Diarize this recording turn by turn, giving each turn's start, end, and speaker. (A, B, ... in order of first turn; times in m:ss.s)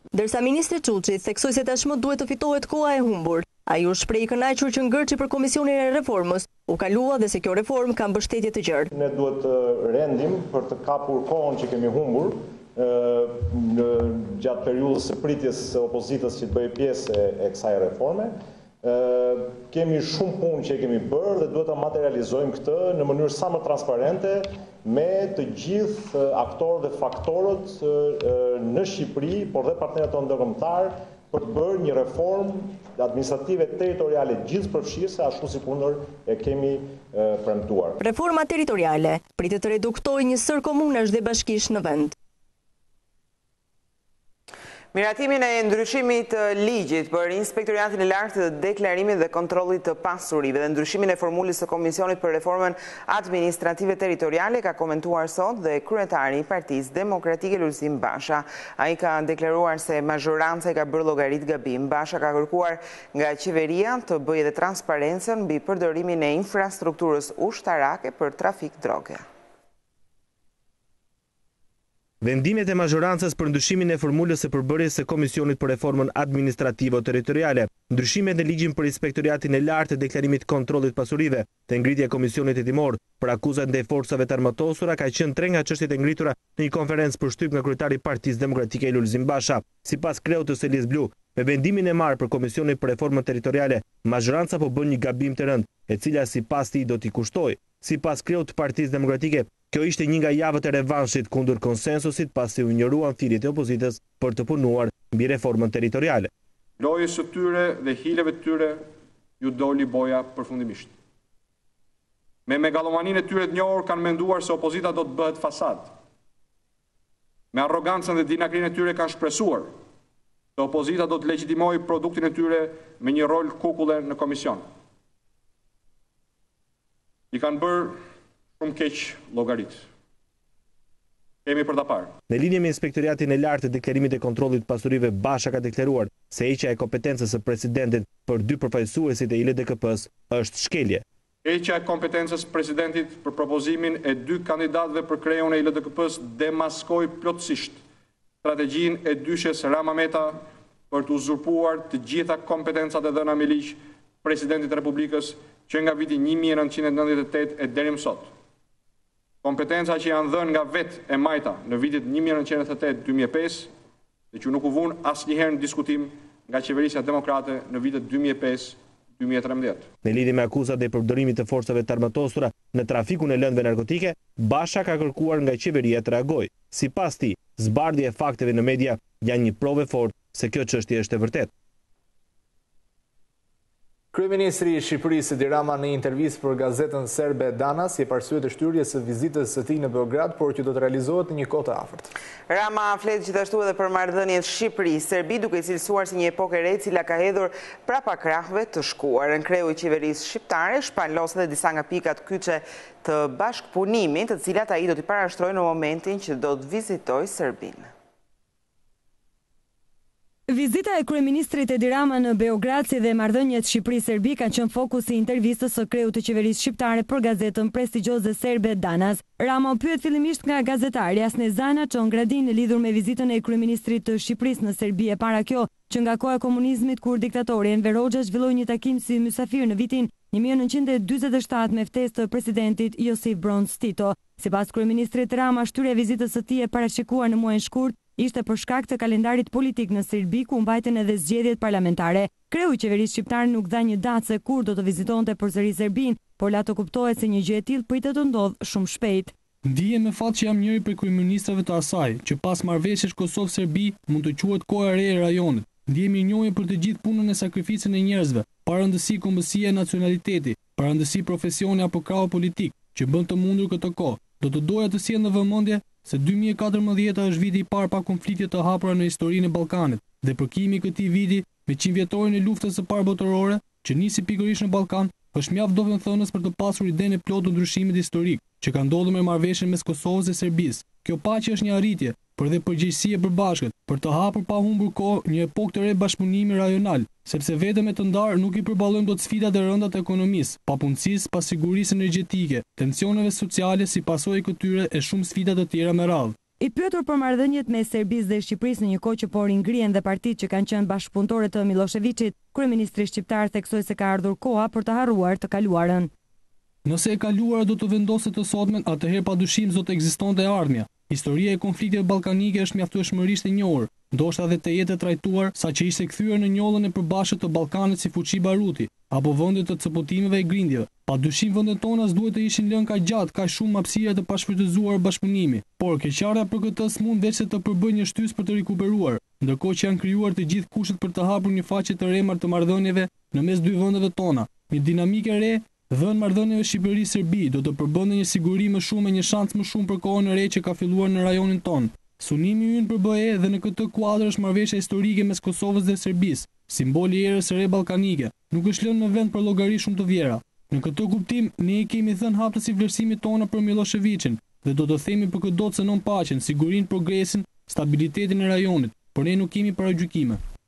0:00.1-0:08.9 A
0:08.9-0:38.0 B
0:38.0-0:42.1 A
0:44.9-1:09.2 C
1:12.2-1:46.3 D
1:46.8-1:48.8 E
1:49.4-1:50.9 E
1:52.5-1:55.9 E
1:57.5-1:59.7 E
2:00.6-2:04.6 E
2:07.3-2:08.0 E
2:08.6-2:09.8 E
2:11.4-2:12.1 E
2:12.3-2:21.0 D
2:21.4-2:27.8 E
2:28.4-2:38.3 E
2:39.4-2:43.7 E
2:44.3-2:49.8 E
2:50.0-3:01.5 D
3:04.1-3:12.1 F
3:12.5-3:27.9 C
3:30.5-4:09.3 G
4:09.6-4:56.4 H
4:56.6-5:06.1 G
5:06.8-6:00.4 H